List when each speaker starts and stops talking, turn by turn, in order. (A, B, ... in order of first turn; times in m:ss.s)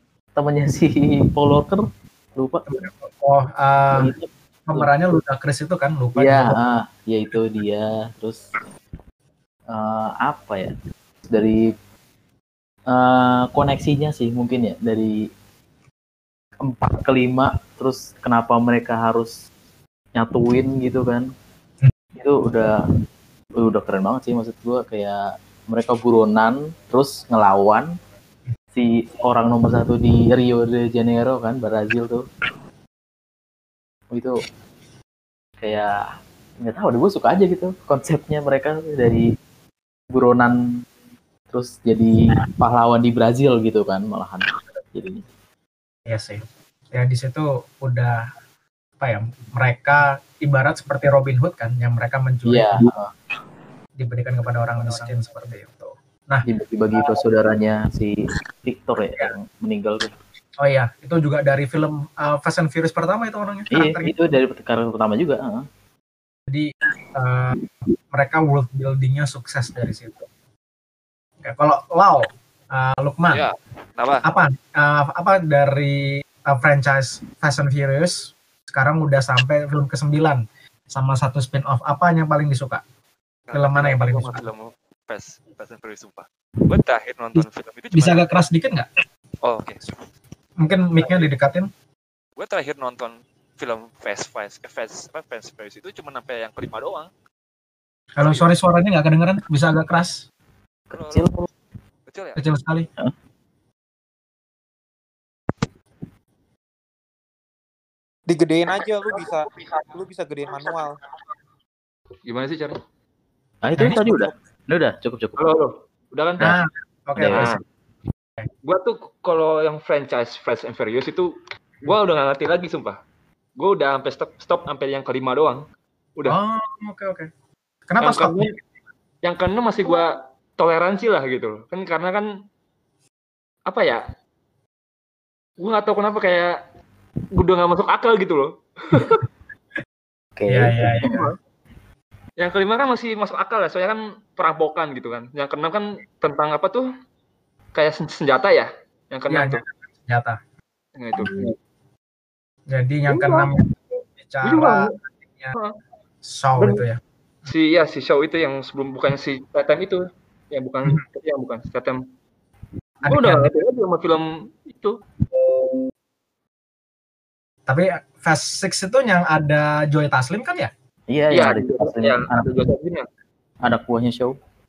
0:00.4-0:02.8 A
0:02.7-0:04.1 B
0:03.9-0:04.9 A
0:04.7-0:06.6 B
0:06.2-0:08.5 A
0:09.7-0:10.7 A
0:11.3-0:11.6 A
0:12.9-0:15.2 A
0:16.6-0:19.3 A
0:20.2-0:21.3 A
0:22.2-0:22.7 A
0:23.6-0:27.9 A
0:28.7-0:32.3 A
0:35.6-0:35.9 A
0:36.6-0:39.2 A
0:40.1-0:40.6 A
0:41.5-0:45.2 A
0:46.1-0:48.3 B
0:49.0-0:52.9 B
0:52.5-0:53.1 A
0:54.0-0:56.5 B
0:56.4-1:00.1 A
1:00.6-1:04.1 B
1:03.7-1:05.6 A
1:06.5-1:07.6 B
1:08.1-1:10.2 B
1:11.4-1:13.4 B
1:13.3-1:14.3 C
1:14.2-1:22.8 B
1:23.5-1:28.3 C
1:23.5-1:24.4 B
1:27.3-1:28.9 B
1:29.4-1:29.9 C
1:30.6-1:31.7 B
1:31.0-1:31.3 C
1:32.4-1:37.1 C
1:38.2-1:40.2 B
1:38.2-1:38.5 C
1:40.9-1:41.3 C
1:40.9-1:41.5 A
1:42.1-1:42.4 C
1:42.4-1:42.9 B
1:48.3-1:51.0 D
1:52.3-1:52.8 E
1:53.6-1:55.5 A
1:53.8-1:54.3 B
1:55.4-1:56.5 E
1:56.4-1:57.6 B
1:57.2-1:57.6 A
1:57.3-1:57.6 E
1:58.6-2:01.3 E
2:01.8-2:03.0 E
2:03.6-2:05.6 E
2:06.3-2:07.3 B
2:07.9-2:08.6 B
2:08.0-2:08.5 E
2:09.2-2:12.3 E
2:13.7-2:14.0 E
2:15.6-2:16.5 E
2:17.3-2:19.2 E
2:20.4-2:21.3 A
2:20.5-2:21.3 B
2:22.4-2:26.9 E
2:27.7-2:29.6 E
2:29.3-2:30.4 B
2:31.0-2:31.5 E
2:32.7-2:33.7 B
2:33.1-2:33.5 E
2:34.2-2:35.6 B
2:34.4-2:34.9 E
2:36.2-2:37.0 B
2:36.6-2:36.8 E
2:37.5-2:42.0 E
2:43.0-2:43.5 B
2:43.1-2:45.0 E
2:47.7-2:50.7 B
2:51.1-2:52.6 A
2:51.3-2:53.0 E
2:53.6-2:54.4 A